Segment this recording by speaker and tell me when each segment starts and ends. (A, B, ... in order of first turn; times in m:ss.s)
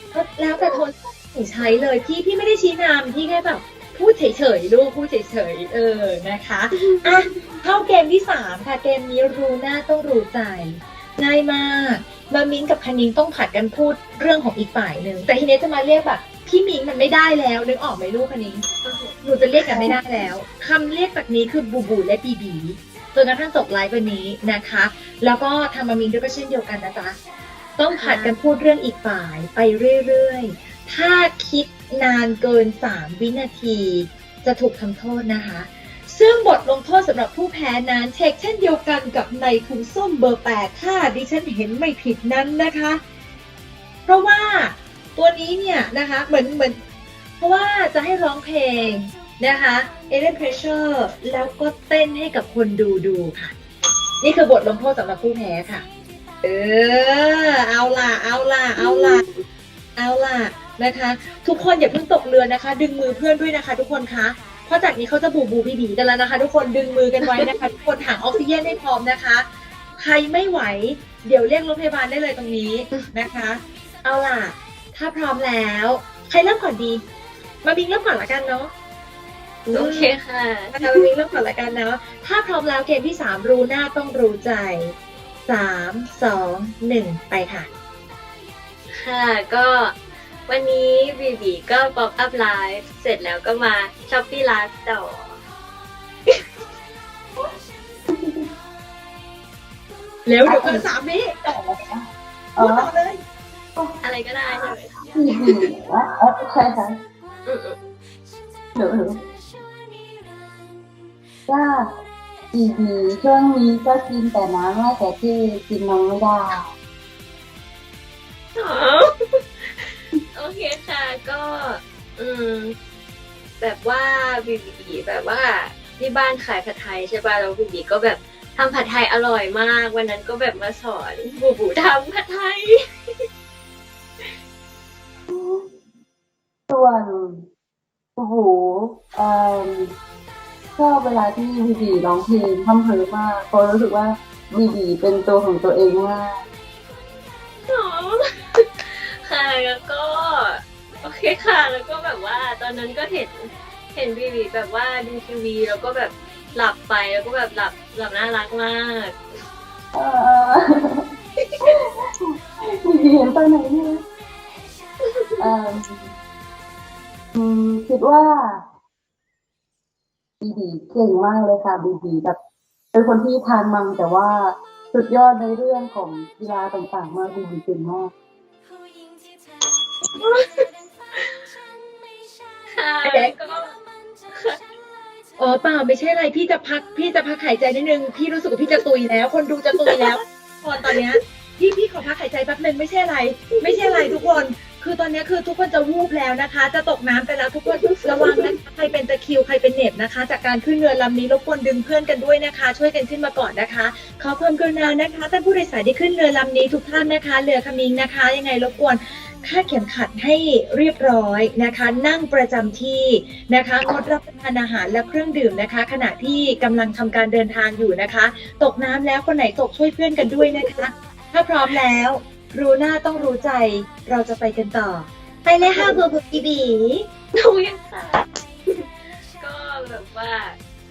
0:00.1-0:18.6 A
0:06.8-0:07.2 B
0:18.8-0:19.2 B
0:19.2-0:27.2 A
0:19.7-0:20.0 B
0:19.7-0:20.0 C
0:27.8-0:43.0 A
0:27.9-0:28.3 B
0:44.1-0:46.8 A
0:47.4-0:53.5 A
0:54.2-0:55.8 A
0:56.4-0:59.2 A
1:00.0-1:09.4 A
1:10.0-1:17.0 A
1:17.6-1:18.7 A
1:19.6-1:21.1 B
1:19.7-1:20.1 A
1:20.7-1:25.0 A
1:25.5-1:27.7 A
1:29.0-1:29.9 B
1:30.5-1:35.4 B
1:38.1-1:38.5 C
1:40.2-1:41.4 A
1:40.4-1:40.8 C
1:41.4-1:42.9 C
1:42.6-1:43.2 A
1:44.0-1:45.0 B
1:45.0-1:46.9 C
1:47.4-1:47.8 B
1:48.8-1:49.2 C
1:51.5-1:51.9 C
1:52.5-1:56.7 C
1:58.5-2:02.7 B
2:03.6-2:12.7 B
2:15.3-2:15.7 C
2:16.7-2:17.4 C
2:18.2-2:19.9 C
2:20.8-2:26.4 C
2:27.7-2:39.2 B
2:39.9-2:41.0 C
2:41.4-2:41.8 B
2:41.6-2:44.0 C
2:45.0-2:45.5 B
2:45.4-2:46.1 C
2:47.3-2:48.6 C
2:50.4-2:52.4 C
2:52.9-2:58.1 C
3:00.1-3:01.4 B
3:02.7-3:03.8 B
3:03.0-3:03.3 A
3:04.3-3:04.6 B
3:05.4-3:47.0 A
3:13.5-3:14.4 B
3:17.6-3:18.5 B
3:45.7-3:46.0 B
3:47.3-3:48.8 B
3:49.4-3:50.6 B